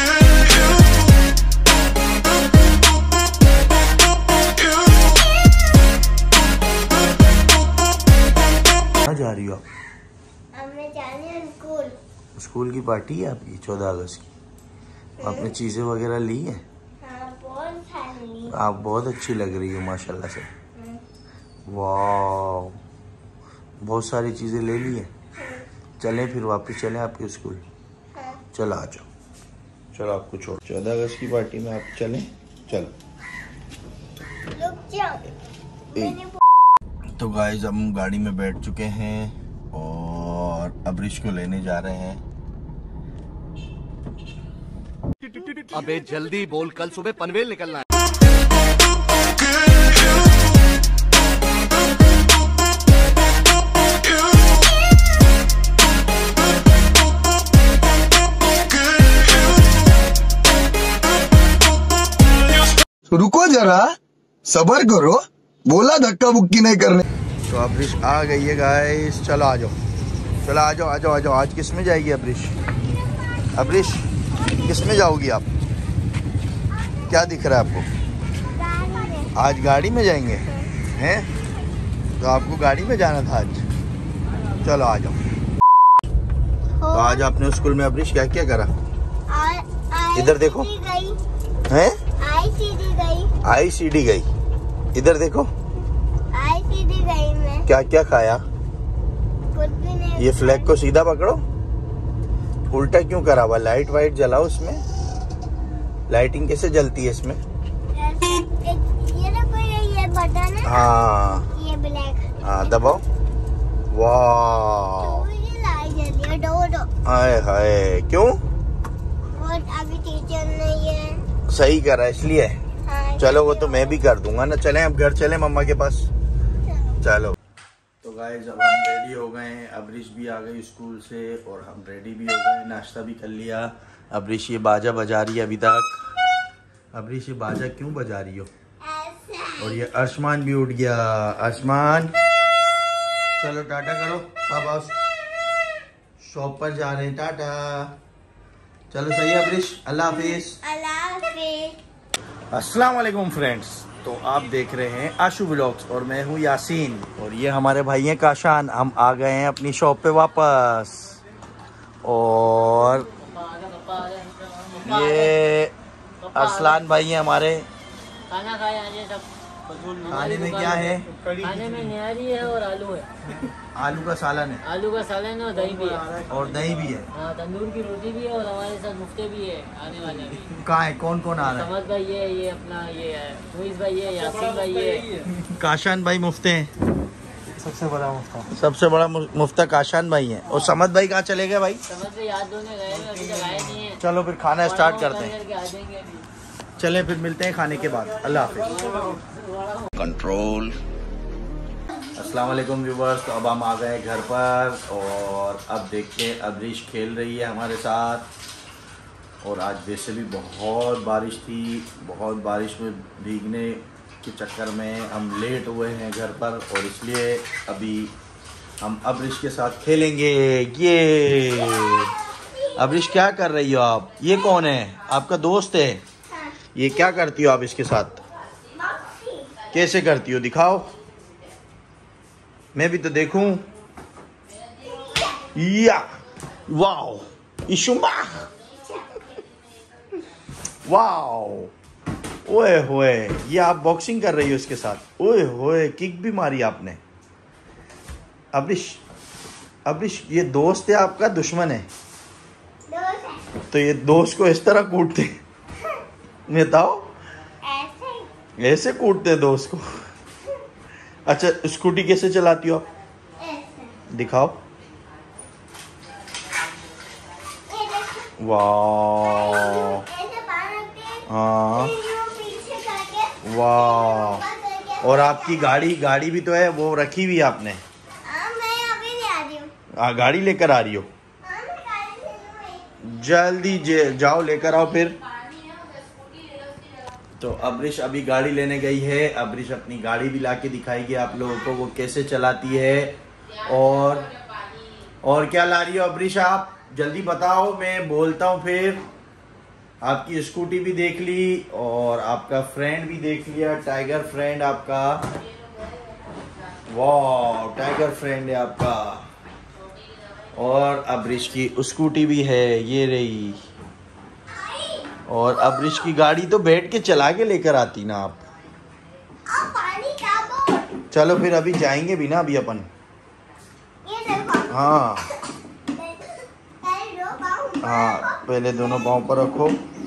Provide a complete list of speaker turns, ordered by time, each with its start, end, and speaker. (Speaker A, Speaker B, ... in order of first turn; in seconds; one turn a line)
Speaker A: 9.0-9.6
Speaker B: 10.5-12.0
Speaker A: 12.4-14.3
Speaker B: 15.2-15.5
Speaker A: 15.2-16.6
Speaker B: 17.0-18.6
Speaker A: 18.5-20.5
Speaker A: 21.7-22.8
Speaker A: 23.8-25.1
Speaker B: 25.4-25.6
Speaker A: 26.0-27.6
Speaker B: 28.1-28.4
Speaker A: 28.5-29.1
Speaker A: 29.9-33.0
Speaker B: 34.5-35.3
Speaker B: 35.9-36.4
Speaker A: 37.2-42.2
Speaker C: 45.3-47.8
Speaker D: 63.1-64.0
Speaker D: 64.5-67.0
Speaker A: 67.5-69.8
Speaker A: 70.4-72.6
Speaker A: 73.5-74.1
Speaker B: 74.4-74.7
Speaker A: 74.6-75.5
Speaker A: 77.1-77.9
Speaker B: 78.5-79.3
Speaker A: 79.3-81.3
Speaker A: 82.2-83.7
Speaker A: 84.6-85.2
Speaker B: 86.8-87.3
Speaker A: 86.9-88.7
Speaker B: 89.3-91.2
Speaker A: 90.2-90.7
Speaker A: 91.7-92.0
Speaker B: 92.2-93.3
Speaker A: 93.4-94.3
Speaker A: 94.9-95.5
Speaker B: 96.3-97.7
Speaker A: 97.7-98.4
Speaker B: 99.5-100.8
Speaker A: 100.2-101.4
Speaker A: 102.7-104.8
Speaker A: 106.1-107.4
Speaker B: 107.9-111.0
Speaker A: 110.6-111.5
Speaker B: 111.5-112.6
Speaker A: 112.4-113.0
Speaker A: 113.9-115.3
Speaker B: 115.0-116.9
Speaker A: 117.0-118.4
Speaker B: 119.3-121.2
Speaker A: 121.5-122.6
Speaker B: 122.8-124.0
Speaker A: 123.2-126.1
Speaker A: 127.0-127.4
Speaker A: 128.0-136.0
Speaker A: 136.9-138.5
Speaker B: 138.8-139.9
Speaker A: 139.6-142.1
Speaker A: 143.4-145.0
Speaker A: 146.2-147.9
Speaker A: 148.9-150.6
Speaker B: 150.1-151.8
Speaker A: 152.5-161.2
Speaker A: 162.0-163.1
Speaker E: 163.2-165.3
Speaker A: 164.8-165.8
Speaker E: 166.2-166.8
Speaker A: 166.3-167.7
Speaker E: 168.3-169.3
Speaker E: 169.9-173.1
Speaker A: 170.1-171.5
Speaker A: 173.4-174.6
Speaker E: 174.7-176.1
Speaker A: 176.2-177.1
Speaker E: 177.1-180.5
Speaker A: 180.6-181.7
Speaker E: 181.4-185.2
Speaker A: 185.4-186.7
Speaker A: 188.5-191.8
Speaker E: 191.9-194.0
Speaker A: 194.0-195.4
Speaker E: 194.7-196.2
Speaker A: 196.8-198.8
Speaker E: 198.5-199.9
Speaker A: 202.2-208.3
Speaker A: 209.4-218.1
Speaker A: 218.8-222.1
Speaker B: 222.3-223.0
Speaker A: 222.8-226.0
Speaker B: 226.3-226.6
Speaker A: 226.7-228.2
Speaker B: 228.8-229.7
Speaker A: 229.7-230.9
Speaker A: 232.7-233.7
Speaker B: 234.8-235.5
Speaker A: 235.5-236.1
Speaker A: 236.7-238.5
Speaker B: 238.9-239.2
Speaker A: 240.8-241.7
Speaker A: 242.5-247.0
Speaker A: 248.5-249.0
Speaker A: 249.9-251.9
Speaker B: 252.9-253.4
Speaker A: 253.7-255.4
Speaker A: 256.5-257.1
Speaker B: 257.6-258.3
Speaker A: 258.6-259.8
Speaker A: 261.3-262.9
Speaker B: 263.4-263.9
Speaker A: 264.1-264.6
Speaker B: 267.7-268.3
Speaker A: 268.4-270.0
Speaker B: 269.2-275.8
Speaker A: 271.3-271.9
Speaker A: 273.4-274.4
Speaker A: 275.0-277.8
Speaker B: 278.2-279.7
Speaker A: 280.0-281.1
Speaker B: 281.4-283.1
Speaker A: 283.0-285.2
Speaker A: 287.4-294.3
Speaker A: 295.2-299.0
Speaker A: 300.0-305.2
Speaker A: 306.9-309.3
Speaker A: 310.5-313.6
Speaker B: 314.6-315.1
Speaker A: 315.3-318.5
Speaker B: 315.7-316.0
Speaker B: 319.5-321.0
Speaker A: 321.1-322.9
Speaker B: 324.0-325.0
Speaker A: 324.7-325.3
Speaker B: 325.9-328.4
Speaker A: 327.8-329.8